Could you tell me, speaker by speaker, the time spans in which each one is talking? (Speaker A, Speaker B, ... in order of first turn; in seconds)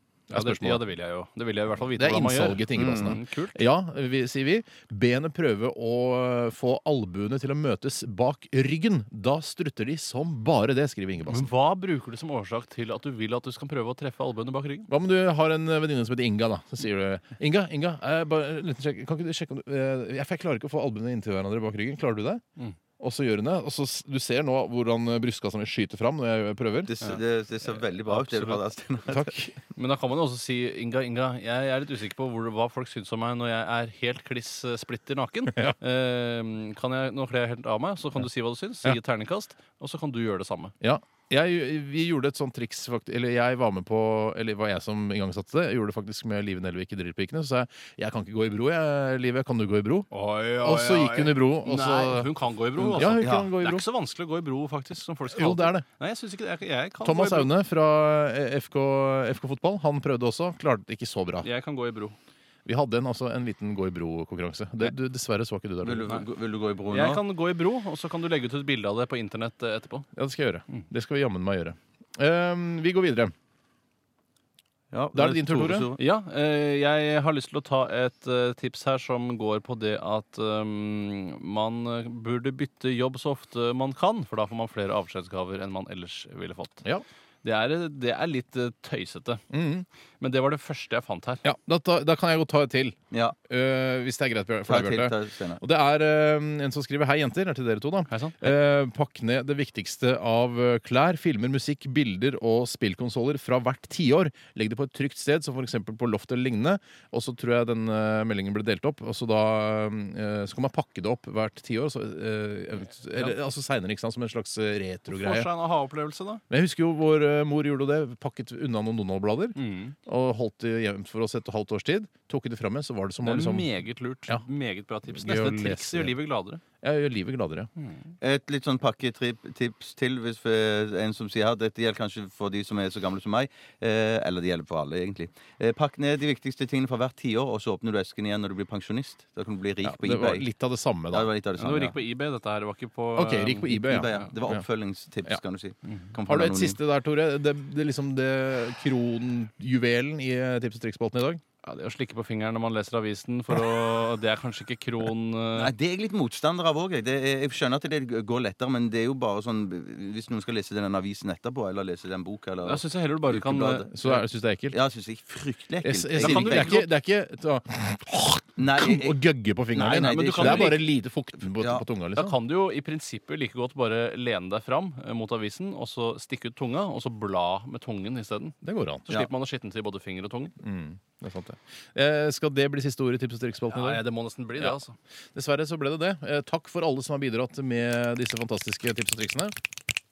Speaker A: 0.3-0.8, 1.8-11.5, 14.9-22.4, 23.0-26.9, 29.1-29.5, 40.8-50.1, 50.6-53.9, 55.3-55.9, 57.0-61.5, 62.6-66.1, 70.1-73.3, 75.1-75.9, 89.5-89.8, 91.4-93.0, 93.5-115.5, 116.5-119.5, 120.0-123.7, 125.1-126.2, 126.8-127.7, 139.8-141.3, 143.2-144.6, 146.3-151.4, 163.9-164.8, 165.8-172.4, 178.6-179.1, 180.6-184.0, 185.3-189.5
Speaker B: 0.3-3.6, 11.3-14.9, 27.0-28.6, 29.7-40.7, 50.1-57.5, 61.4-62.1, 66.9-70.0, 76.0-86.8, 87.4-89.4, 90.2-91.4, 98.1-98.5, 115.1-116.4, 119.5-120.0, 123.2-126.6, 127.8-128.1, 141.6-144.3, 145.9-146.1, 151.6-155.7, 162.6-163.9, 166.2-166.9, 169.9-170.8, 172.1-180.5, 183.7-184.9
Speaker C: 2.8-3.1, 26.9-29.5, 53.0-53.5, 65.8-67.2, 74.9-76.0, 94.7-95.6, 128.2-140.5, 141.1-142.0, 143.9-146.8, 155.5-166.8, 168.6-169.2, 169.7-170.9, 171.5-171.8